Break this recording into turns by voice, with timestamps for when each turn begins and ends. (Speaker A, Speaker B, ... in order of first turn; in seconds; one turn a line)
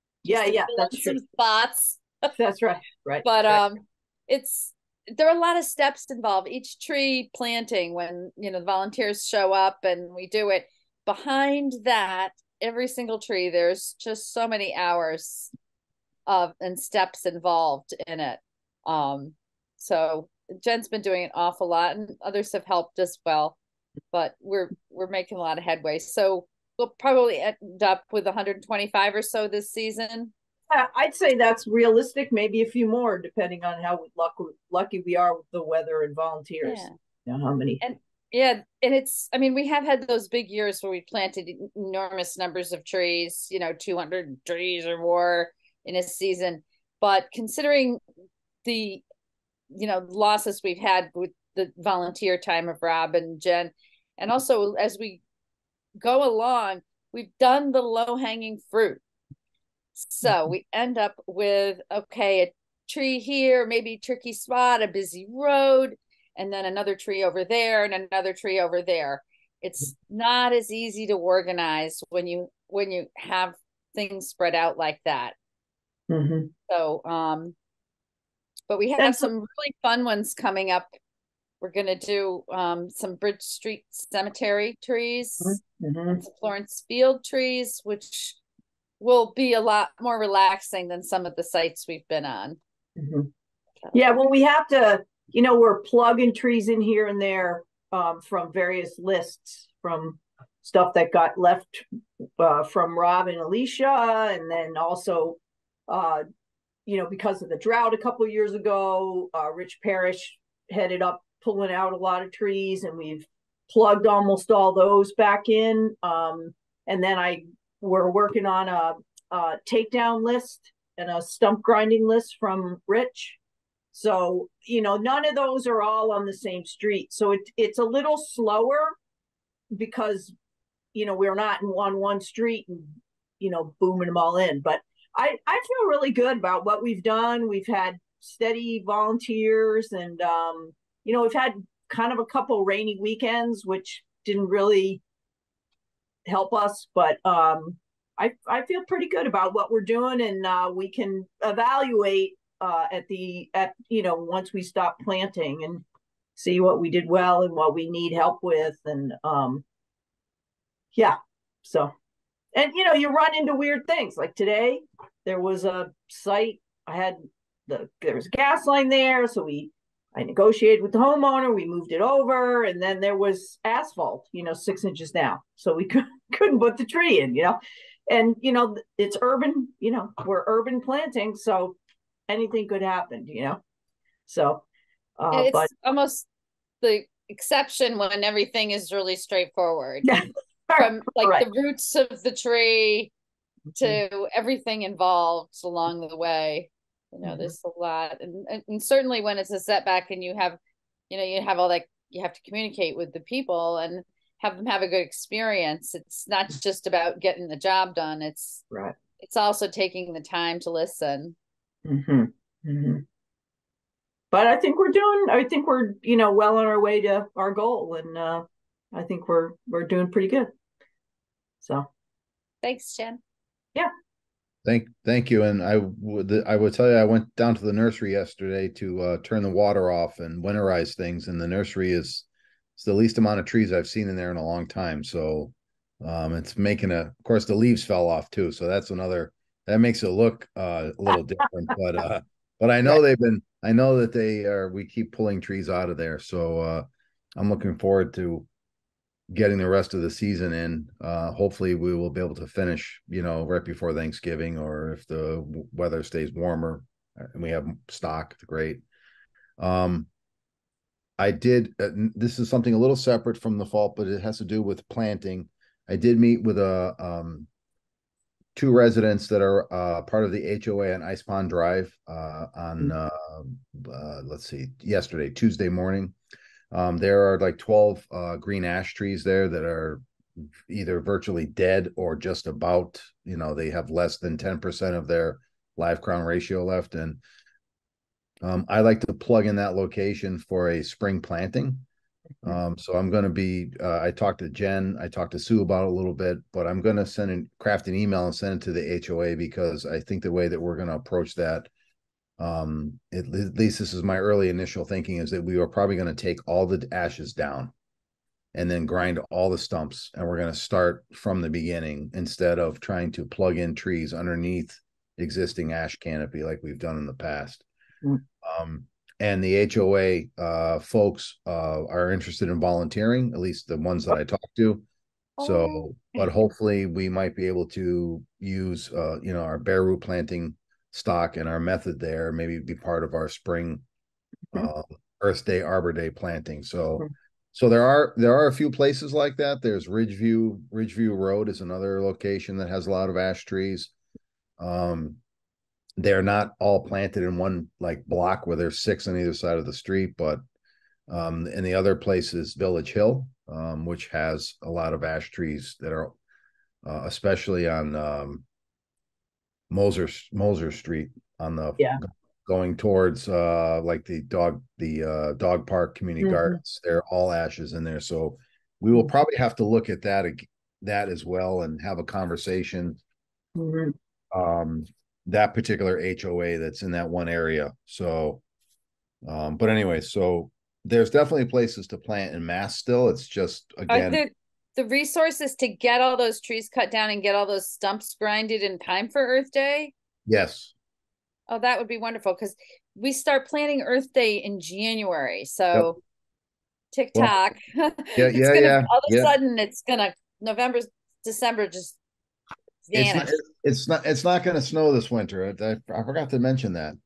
Speaker A: 0.2-1.2
Speaker B: 0.3-2.3
Speaker A: 2.4-3.6
Speaker B: 3.2-15.5
Speaker B: 16.3-23.6
Speaker B: 24.1-30.3
Speaker A: 30.7-37.8
Speaker B: 36.6-36.9
Speaker B: 37.8-48.0
Speaker B: 48.6-49.0
Speaker B: 49.7-55.2
Speaker B: 56.0-59.0
Speaker B: 60.0-75.3
Speaker A: 76.1-76.5
Speaker B: 76.7-77.5
Speaker B: 78.7-80.9
Speaker A: 79.0-79.3
Speaker B: 81.6-85.6
Speaker A: 85.4-86.2
Speaker B: 86.1-88.4
Speaker B: 89.0-92.6
Speaker A: 93.0-93.3
Speaker A: 93.9-101.8
Speaker A: 102.4-106.2
Speaker A: 106.9-123.4
Speaker A: 123.9-128.9
Speaker A: 129.7-130.3
Speaker A: 130.9-145.0
Speaker A: 146.3-155.8
Speaker A: 156.4-159.6
Speaker A: 160.9-161.9
Speaker A: 162.5-181.8
Speaker A: 182.3-183.6
Speaker A: 184.3-184.7
Speaker A: 185.2-185.7
Speaker B: 185.3-186.3
Speaker B: 186.8-190.2
Speaker A: 190.0-191.5
Speaker B: 190.8-193.1
Speaker B: 193.8-200.6
Speaker A: 197.2-197.5
Speaker B: 201.1-208.6
Speaker A: 208.7-209.0
Speaker B: 209.2-211.4
Speaker A: 211.9-213.0
Speaker A: 214.3-220.5
Speaker A: 221.6-221.9
Speaker B: 222.6-223.2
Speaker C: 224.7-232.3
Speaker C: 232.8-248.5
Speaker C: 249.3-258.8
Speaker C: 259.6-260.1
Speaker C: 261.2-267.5
Speaker C: 268.6-276.1
Speaker C: 276.7-280.0
Speaker C: 280.7-287.2
Speaker C: 288.4-291.9
Speaker C: 292.4-301.7
Speaker C: 302.4-307.7
Speaker C: 308.5-317.7
Speaker C: 318.4-324.9
Speaker C: 325.4-333.8
Speaker C: 334.5-343.9
Speaker C: 344.6-345.2
Speaker C: 346.0-350.4
Speaker C: 351.1-356.1
Speaker C: 356.8-358.4
Speaker C: 359.7-373.0
Speaker A: 366.2-366.6
Speaker A: 373.6-373.9
Speaker C: 374.3-378.4
Speaker C: 379.2-384.2
Speaker B: 383.9-389.9
Speaker C: 390.3-390.7
Speaker B: 391.5-396.0
Speaker B: 396.9-402.0
Speaker C: 398.2-399.4
Speaker B: 402.9-403.4
Speaker C: 402.9-407.0